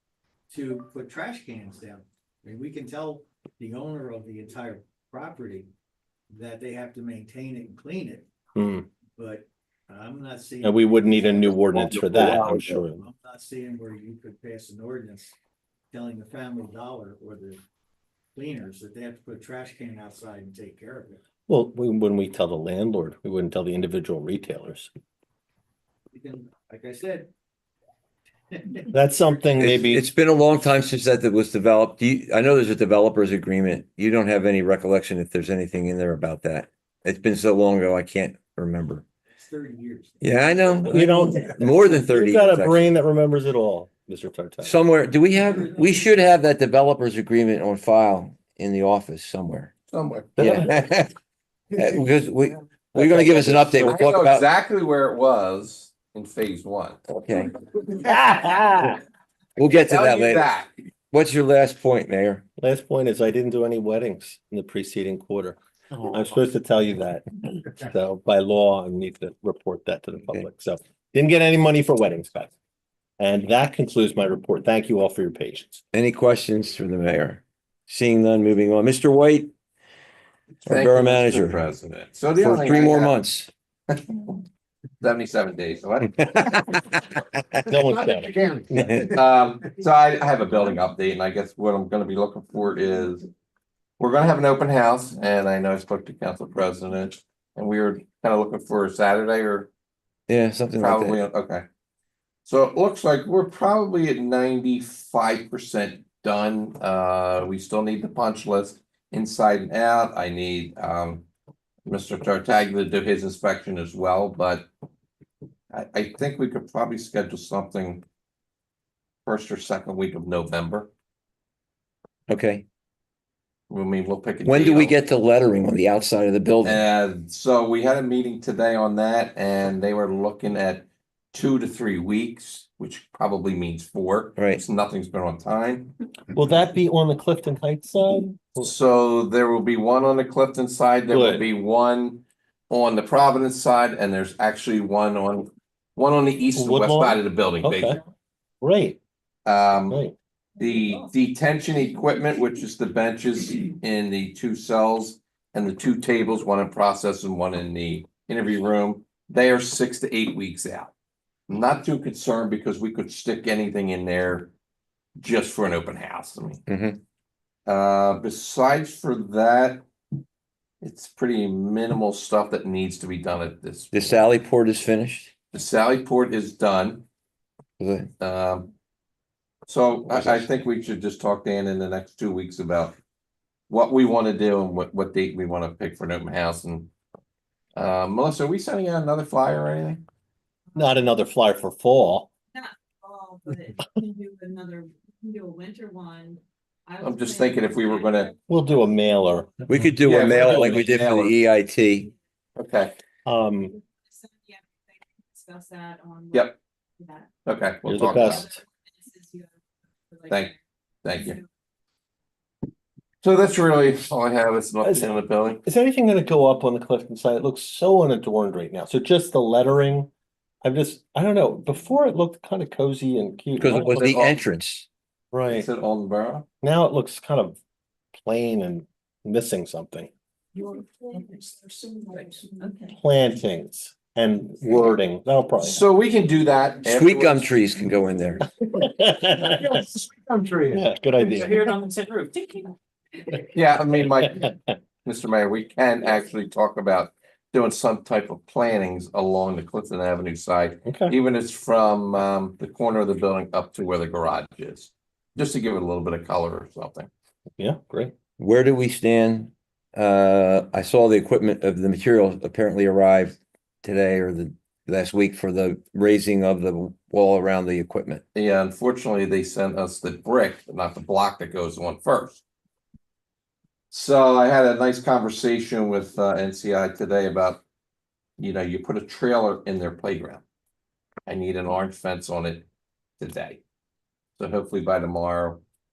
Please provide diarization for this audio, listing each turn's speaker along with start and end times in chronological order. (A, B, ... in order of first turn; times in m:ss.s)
0:00.5-0:05.7 A
0:06.3-0:08.3 A
0:08.6-0:08.8 B
0:09.2-0:15.4 A
0:10.6-0:13.0 B
0:15.9-0:17.6 A
0:18.3-0:21.2 A
0:21.5-0:24.9 B
0:26.1-0:27.3 A
0:28.5-0:28.9 A
0:28.9-0:30.0 B
0:29.6-0:39.0 C
0:39.3-0:41.4 A
0:40.2-0:42.8 C
0:40.8-0:44.8 B
0:44.6-0:49.7 C
0:45.3-0:46.0 A
0:49.9-0:50.3 D
0:50.4-0:50.7 B
0:50.4-0:51.1 C
0:51.8-0:54.5 C
0:52.9-0:54.0 B
0:53.8-0:57.0 D
0:57.1-0:57.5 C
0:58.0-0:59.0 C
0:59.6-1:00.4 C
0:59.7-1:00.7 D
1:01.1-1:02.4 C
1:02.6-1:12.5 B
1:13.2-1:15.8 B
1:15.9-1:19.5 C
1:20.6-1:23.1 D
1:20.6-1:21.6 C
1:22.4-1:23.5 C
1:23.9-1:24.4 D
1:25.0-1:26.8 D
1:26.2-1:26.8 C
1:27.7-1:29.1 B
1:29.1-1:33.3 D
1:34.0-1:39.7 D
1:40.3-1:41.2 C
1:40.8-1:41.6 D
1:42.4-1:51.2 D
1:51.8-1:54.7 D
1:55.7-1:58.0 D
1:59.2-2:00.9 D
2:02.3-2:02.6 C
2:03.7-2:05.0 D
2:04.4-2:06.8 C
2:06.6-2:15.9 D
2:14.4-2:14.6 C
2:16.3-2:18.7 B
2:18.6-2:28.0 D
2:21.1-2:21.5 B
2:26.5-2:28.0 B
2:28.6-2:29.0 B
2:29.4-2:30.0 D
2:29.9-2:30.1 B
2:30.6-2:40.9 D
2:41.5-2:44.5 D
2:45.2-2:46.6 D
2:46.7-2:47.0 C
2:47.6-2:49.8 D
2:50.8-2:54.2 D
2:53.9-2:55.3 C
2:55.5-2:57.0 D
2:57.8-2:58.1 C
2:58.2-2:58.7 D
2:59.7-3:03.0 D
3:00.1-3:00.5 C
3:03.7-3:06.9 D
3:07.8-3:10.0 D
3:10.7-3:11.2 E
3:10.7-3:12.3 B
3:12.5-3:20.2 E
3:17.0-3:18.3 D
3:18.5-3:19.8 B
3:19.7-3:22.1 C
3:20.0-3:21.4 D
3:22.6-3:22.9 D
3:23.2-3:23.7 B
3:24.1-3:27.3 E
3:27.4-3:28.5 D
3:27.8-3:28.6 B
3:27.9-3:29.5 E
3:30.1-3:30.6 E
3:31.0-3:31.4 D
3:31.1-3:31.4 E
3:33.2-3:35.6 D
3:34.8-3:40.1 B
3:40.6-3:44.0 B
3:43.6-3:44.9 C
3:43.7-3:44.4 D
3:45.3-3:45.7 B
3:45.5-3:46.4 D
3:46.6-3:47.6 B
3:48.1-3:50.1 B
3:50.6-3:51.5 E
3:52.1-3:52.9 E
3:52.9-3:55.8 B
3:55.6-3:57.5 D
3:56.8-3:58.4 C
3:58.6-3:59.8 B
3:59.7-4:00.8 F
4:00.7-4:01.6 B
4:01.4-4:02.6 F
4:03.5-4:04.5 D
4:05.0-4:17.1 D
4:10.8-4:11.1 B
4:17.6-4:18.1 B
4:18.4-4:28.2 C
4:28.3-4:32.4 D
4:33.9-4:37.6 D
4:38.4-4:40.4 D
4:41.2-4:42.6 D
4:43.2-4:43.6 D
4:44.4-4:45.6 D